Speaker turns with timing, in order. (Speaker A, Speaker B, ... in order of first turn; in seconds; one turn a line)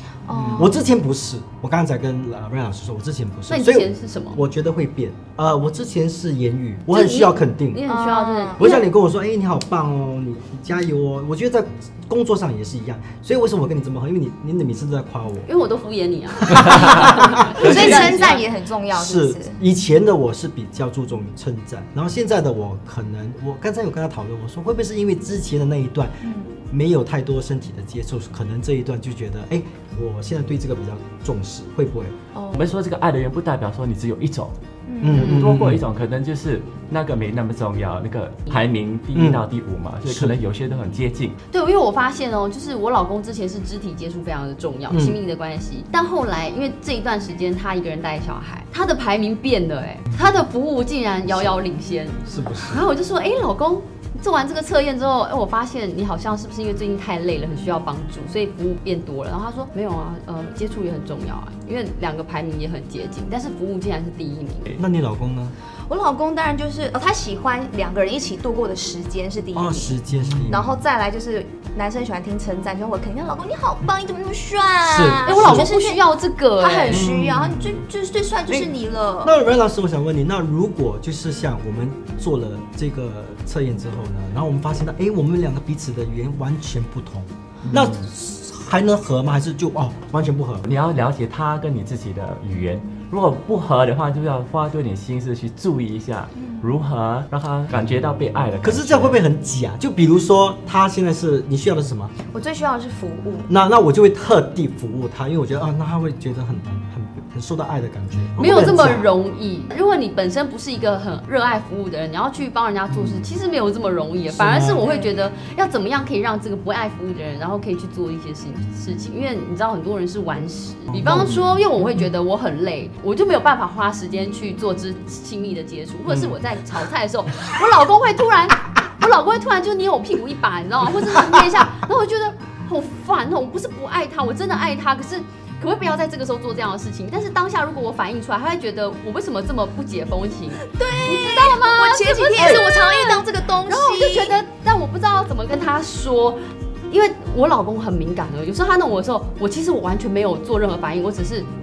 Speaker A: 0.3-0.8
Speaker B: 0.4-7.8
Speaker C: 3.5-4.4
Speaker C: 6.9-8.8
Speaker A: 7.9-8.8
Speaker B: 8.6-15.5
Speaker C: 15.5-18.4
Speaker B: 16.5-18.2
Speaker A: 17.5-19.6
Speaker B: 18.9-32.1
Speaker A: 26.2-26.5
Speaker A: 32.3-32.7
Speaker D: 32.5-41.4
Speaker A: 34.9-35.3
Speaker B: 35.0-35.8
Speaker B: 39.1-39.5
Speaker B: 40.0-40.4
Speaker C: 41.5-64.8
Speaker B: 44.9-45.2
Speaker B: 52.3-52.9
Speaker B: 64.8-65.5
Speaker A: 65.9-70.0
Speaker B: 69.5-70.8
Speaker A: 70.5-76.0
Speaker B: 74.8-75.7
Speaker C: 75.2-77.1
Speaker A: 76.6-79.3
Speaker B: 76.9-77.8
Speaker B: 79.2-90.7
Speaker D: 87.6-88.0
Speaker D: 90.6-99.2
Speaker A: 96.4-96.7
Speaker B: 98.6-102.1
Speaker A: 102.3-103.5
Speaker B: 103.5-109.1
Speaker C: 108.4-151.5
Speaker B: 112.9-113.3
Speaker B: 114.3-114.9
Speaker A: 114.9-115.1
Speaker B: 120.9-121.4
Speaker B: 126.1-126.3
Speaker A: 140.7-144.4